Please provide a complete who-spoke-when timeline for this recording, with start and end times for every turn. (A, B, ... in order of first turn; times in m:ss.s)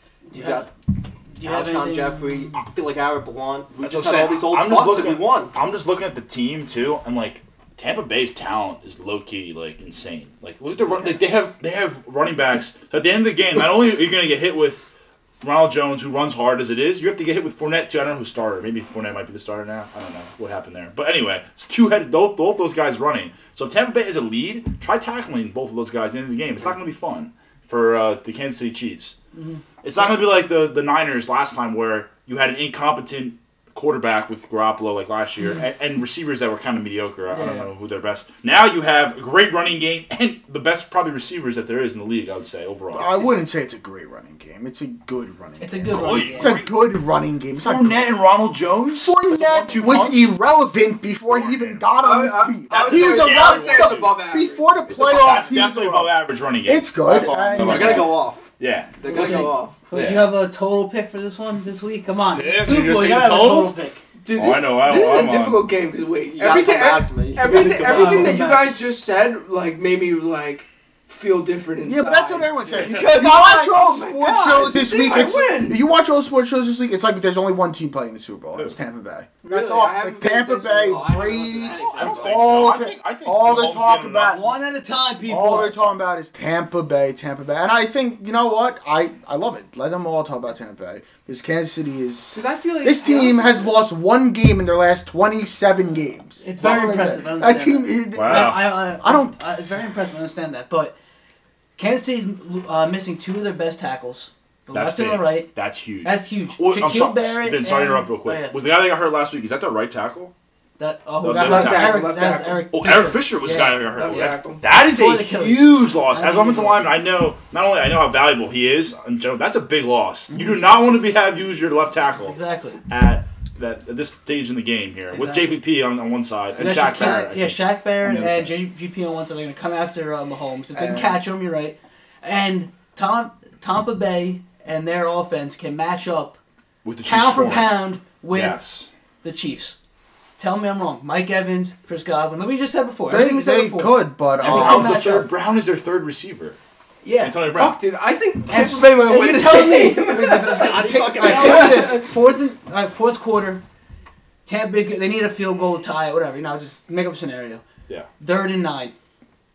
0:00.3-0:00.7 A
0:00.3-0:00.7 B
0:01.3-0:02.5 A
0:01.4-0:05.6 B
0:03.8-0:14.9 C
0:15.4-0:29.1 C
0:29.3-0:29.6 A
0:29.8-0:43.3 C
0:37.3-0:37.7 A
0:42.9-0:48.1 D
0:45.6-0:46.6 A
0:45.9-0:46.7 C
0:47.6-0:50.3 C
0:48.9-0:58.2 D
0:51.3-0:51.8 C
0:52.0-0:54.7 E
0:52.7-0:54.2 C
0:54.9-1:00.3 C
0:57.6-0:59.8 B
0:59.0-1:04.0 A
1:02.3-1:03.8 C
1:04.2-1:15.8 E
1:04.3-1:05.7 C
1:06.4-1:08.4 B
1:07.4-1:08.8 A
1:11.8-1:24.4 D
1:12.6-1:13.1 C
1:19.4-1:21.2 E
1:20.8-1:22.8 B
1:21.8-1:24.5 C
1:24.2-1:25.8 A
1:25.3-1:39.8 D
1:25.6-1:25.9 C
1:32.3-1:33.8 E
1:36.4-1:40.9 A
1:38.1-1:38.8 C
1:41.8-1:45.5 A
1:44.7-1:50.3 C
1:46.0-1:48.6 A
1:50.8-1:56.9 A
1:51.2-1:52.1 C
1:51.3-1:52.6 E
1:52.7-2:08.6 C
1:53.9-1:54.6 E
2:02.2-2:02.8 A
2:05.1-2:05.6 A
2:06.5-2:16.4 A
2:10.7-2:11.2 D
2:16.8-2:18.9 C
2:17.0-2:18.6 A
2:19.2-2:19.8 A
2:20.4-2:25.3 A
2:23.1-2:25.2 D
2:24.4-2:26.6 C
2:27.0-2:27.4 A
2:27.2-2:27.8 C
2:27.5-2:32.1 E
2:28.5-2:33.6 A
2:30.3-2:32.0 B
2:34.4-2:37.6 A
2:38.2-2:38.9 A